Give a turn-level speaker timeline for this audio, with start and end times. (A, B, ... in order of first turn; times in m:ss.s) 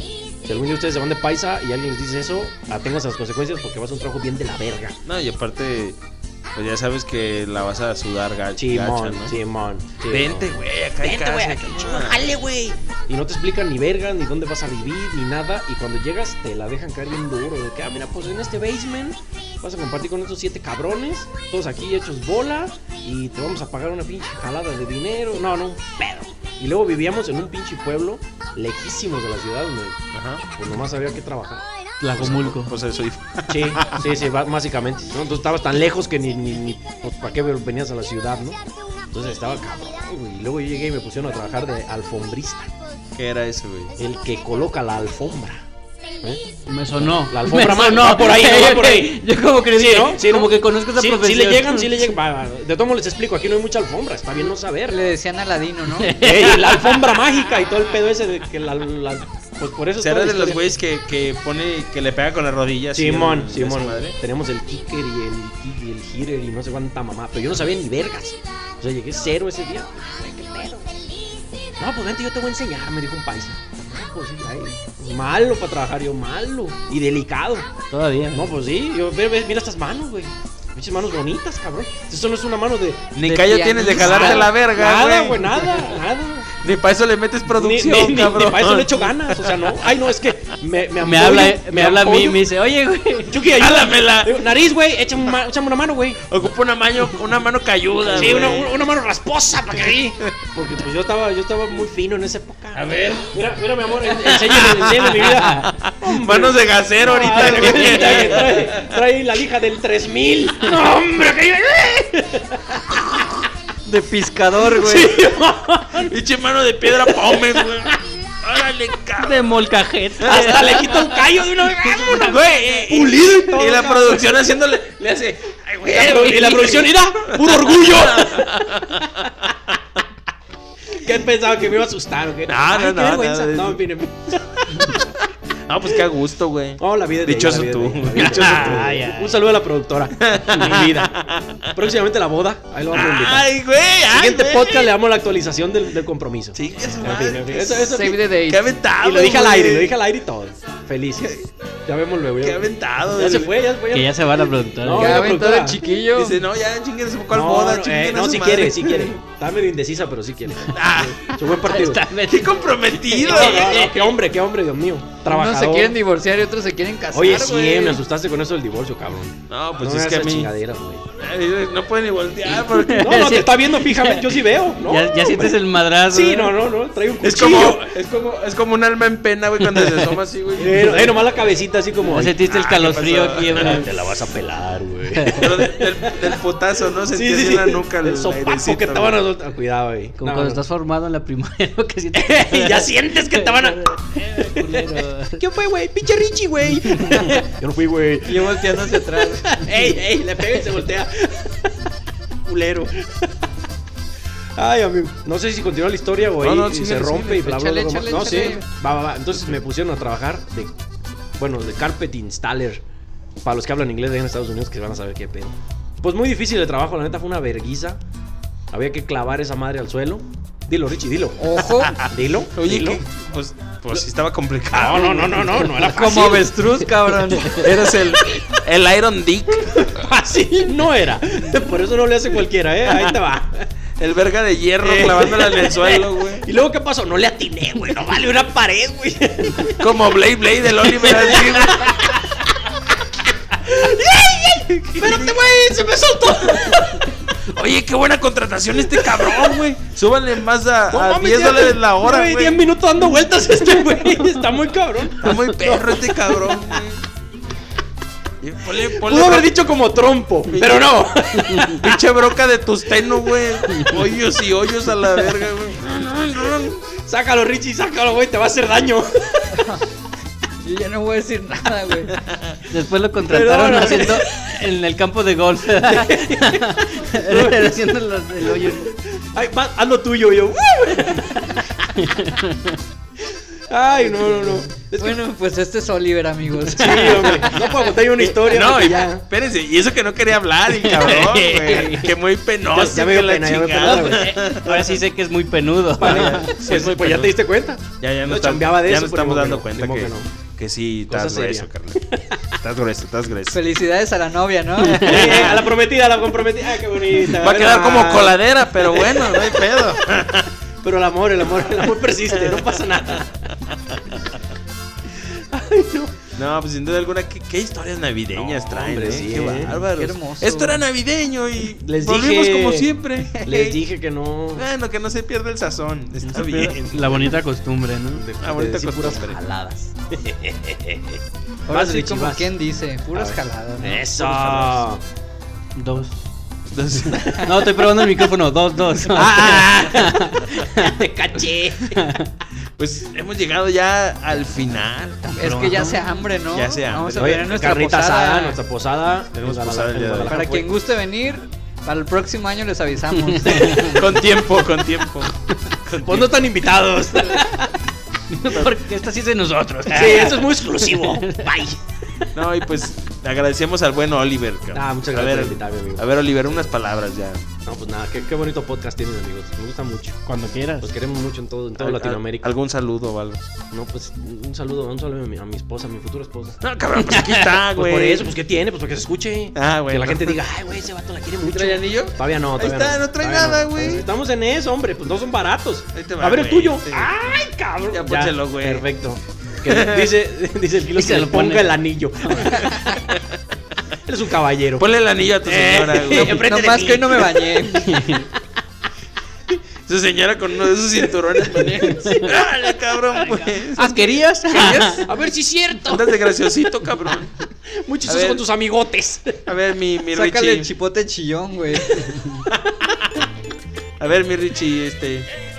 0:00.4-0:05.0 A
0:05.0-0:06.0 B
0:06.5-0:09.4 B
0:08.6-0:31.6 A
0:10.0-0:12.4 B
0:30.1-0:30.4 B
0:32.0-0:32.7 C
0:32.2-0:34.2 B
0:33.5-0:38.6 A
0:39.1-0:42.7 A
0:43.1-0:44.0 B
0:44.0-0:45.6 A
0:46.7-0:52.1 C
0:47.0-0:55.0 A
0:54.9-0:56.2 D
0:56.0-0:57.1 C
0:56.2-1:00.6 A
1:00.0-1:04.2 B
1:02.9-1:11.0 A
1:11.8-1:17.7 A
1:17.9-1:18.4 C
1:18.3-1:23.1 A
1:23.1-1:25.8 B
1:23.2-1:24.5 D
1:24.0-1:26.5 A
1:26.6-1:30.2 B
1:27.4-1:32.4 A
1:31.0-1:33.5 C
1:33.3-1:36.2 A
1:33.4-1:34.4 B
1:36.2-1:38.8 B
1:38.1-1:53.3 A
1:38.1-1:38.4 C
1:42.8-1:43.2 B
1:44.4-1:49.0 B
1:45.3-1:45.6 C
1:53.8-1:55.2 D
1:54.5-1:56.1 A
1:56.0-1:59.6 B
1:56.9-1:57.9 A
1:59.2-2:00.9 C
2:00.2-2:09.5 B
2:00.2-2:04.4 A
2:05.8-2:09.1 A
2:11.0-2:15.0 A
2:12.4-2:13.8 B
2:14.8-2:19.0 B
2:16.8-2:21.1 A
2:18.1-2:19.4 C
2:20.2-2:21.7 B
2:20.5-2:20.8 C
2:21.7-2:23.5 A
2:22.9-2:24.9 B
2:24.1-2:28.2 A
2:26.5-2:30.0 B
2:27.5-2:28.7 D
2:29.0-2:31.3 A
2:31.2-2:31.5 B
2:31.8-2:35.8 A
2:32.4-2:33.6 B
2:33.9-2:35.3 C
2:35.0-2:36.4 D
2:36.1-2:39.1 B
2:37.3-2:42.0 A
2:40.7-2:41.3 B
2:41.6-2:43.8 C
2:42.2-2:44.0 B
2:43.2-2:46.0 A
2:45.2-2:48.0 D
2:47.1-2:51.0 A
2:49.5-2:50.5 B
2:51.2-2:53.3 B
2:52.5-2:56.6 C
2:53.0-2:55.6 A
2:56.1-2:57.8 A
2:57.2-3:01.3 B
3:00.5-3:02.4 A
3:02.1-3:03.9 C
3:02.4-3:03.8 B
3:03.5-3:06.4 A
3:05.1-3:05.5 C
3:05.3-3:09.2 B
3:07.0-3:10.6 A
3:10.2-3:15.4 C
3:12.1-3:21.7 A
3:16.7-3:17.2 B
3:18.2-3:19.6 D
3:22.4-3:23.4 A
3:24.6-3:30.7 A
3:26.4-3:27.6 B
3:27.4-3:28.6 D
3:31.4-3:32.8 A
3:33.4-3:38.0 A
3:38.7-3:41.5 A
3:41.4-3:42.0 D
3:41.8-3:45.3 B
3:42.0-3:43.0 A
3:44.7-3:46.6 A
3:45.0-3:47.5 D
3:47.4-3:49.9 B
3:49.6-3:53.7 A
3:52.8-3:53.2 B
3:54.0-3:56.4 B
3:54.8-4:00.0 A
3:59.8-4:02.0 B
4:00.8-4:02.4 A
4:03.5-4:07.4 A
4:04.9-4:05.4 B
4:06.6-4:12.6 B
4:08.8-4:09.6 A
4:10.9-4:16.8 A
4:15.2-4:17.0 B
4:18.4-4:19.5 B
4:18.7-4:22.0 A
4:20.4-4:21.0 B
4:21.6-4:26.9 B
4:27.0-4:29.7 A
4:29.5-4:29.8 D
4:30.6-4:32.1 D
4:32.2-4:32.6 B
4:32.7-4:38.9 C
4:33.2-4:34.3 A
4:35.8-4:37.8 A
4:38.4-4:41.9 A
4:41.9-4:42.8 C
4:43.3-4:45.2 A
4:44.3-4:44.6 C
4:45.0-4:47.7 D
4:46.7-4:49.2 A
4:48.0-4:54.9 B
4:50.7-4:52.1 C
4:51.7-4:52.0 A
4:52.7-4:54.4 A
4:53.8-4:56.6 C
4:56.0-5:00.3 A
4:56.0-4:57.4 B
4:58.0-5:02.0 B
5:01.1-5:02.4 A
5:02.6-5:03.6 B
5:03.5-5:05.5 D
5:04.8-5:05.2 C
5:04.9-5:05.7 B
5:05.0-5:09.7 A
5:07.2-5:10.5 B
5:10.8-5:13.5 A
5:12.3-5:12.7 B
5:13.7-5:14.1 B
5:15.1-5:16.2 A
5:16.4-5:23.8 B
5:18.4-5:19.8 A
5:19.8-5:20.8 D
5:21.8-5:24.6 A
5:24.5-5:27.2 B
5:26.2-5:28.2 C
5:28.1-5:32.5 A
5:28.4-5:29.4 B
5:31.7-5:34.1 D
5:33.1-5:35.0 A
5:34.1-5:34.9 B
5:35.8-5:36.2 C
5:36.7-5:37.5 B
5:37.0-5:41.0 C
5:39.1-5:40.1 B
5:39.1-5:42.1 A
5:41.9-5:42.3 C
5:42.8-5:45.5 B
5:45.2-5:46.0 C
5:45.4-5:48.6 D
5:46.5-5:47.5 B
5:47.2-5:50.7 A
5:49.3-5:50.4 B
5:50.3-5:54.2 D
5:53.1-5:54.0 C
5:53.9-5:56.5 B
5:56.0-5:57.8 A
5:58.3-6:01.6 C
5:59.9-6:01.8 A
6:02.3-6:07.4 B
6:04.7-6:06.1 A
6:07.6-6:10.2 A
6:10.2-6:10.9 C
6:10.8-6:12.5 A
6:11.8-6:13.5 B
6:13.7-6:16.6 A
6:16.6-6:18.4 B
6:17.0-6:17.5 C
6:17.7-6:33.0 A
6:19.5-6:20.4 B
6:21.4-6:24.1 B
6:25.9-6:27.1 B
6:27.9-6:28.8 B
6:29.6-6:30.2 B
6:30.9-6:31.8 C
6:32.4-6:33.2 B
6:34.0-6:34.9 A
6:34.8-6:36.5 B
6:35.4-6:38.4 A
6:36.1-6:37.9 D
6:37.8-6:38.3 C
6:39.8-6:44.0 B
6:41.0-6:42.3 A
6:43.6-6:45.1 C
6:44.5-6:46.3 A
6:45.9-6:47.3 B
6:47.7-6:49.4 A
6:48.1-6:48.4 B
6:49.4-6:50.7 B
6:50.1-6:52.1 D
6:54.0-6:55.3 B